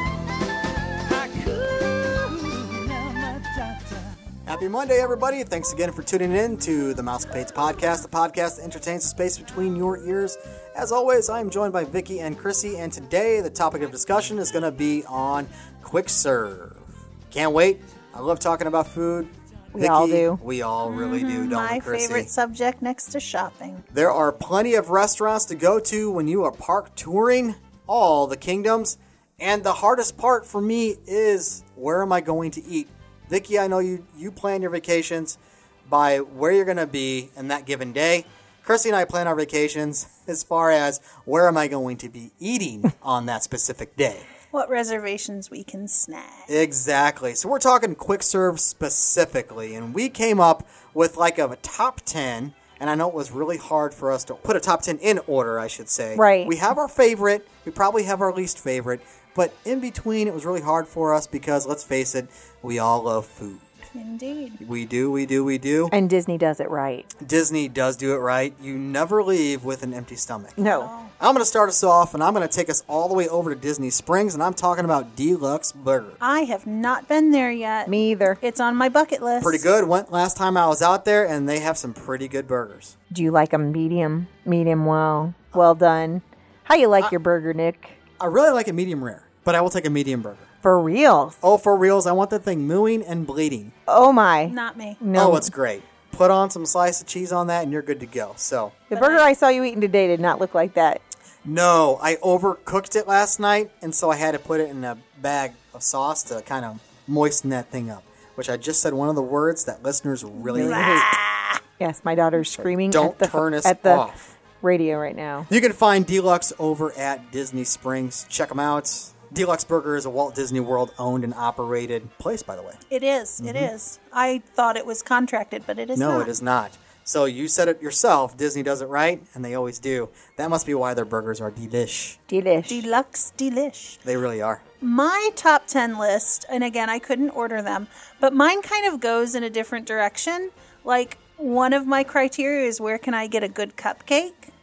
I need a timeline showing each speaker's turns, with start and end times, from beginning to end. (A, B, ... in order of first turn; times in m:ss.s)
0:01.0-0:04.2 A
0:04.5-0:22.3 B
0:19.8-0:20.4 C
0:20.8-0:23.8 D
0:23.9-0:44.3 B
0:44.5-0:46.5 D
0:46.5-1:03.8 B
0:56.2-0:56.5 C
1:04.0-1:04.6 D
1:04.6-1:05.9 B
1:05.9-1:07.1 C
1:07.2-1:10.6 B
1:10.6-1:10.9 C
1:10.6-1:11.1 D
1:11.2-1:16.2 B
1:16.2-1:19.7 D
1:17.9-1:18.4 C
1:19.4-1:23.0 B
1:23.1-1:28.0 C
1:28.2-1:30.5 B
1:30.6-1:31.4 C
1:31.4-1:33.7 B
1:33.9-1:35.5 C
1:34.5-1:35.0 D
1:35.2-1:38.8 B
1:38.9-1:41.0 C
1:38.9-1:39.3 D
1:41.4-1:51.0 B
1:50.4-1:51.6 D
1:50.6-1:51.2 C
1:51.8-1:54.1 C
1:52.5-1:54.3 B
1:54.6-1:55.5 C
1:55.5-2:02.8 B
2:02.9-2:06.3 D
2:03.4-2:03.7 B
2:06.0-2:12.2 B
2:12.3-2:12.8 C
2:12.7-2:14.0 D
2:14.0-2:14.6 B
2:14.8-2:24.5 D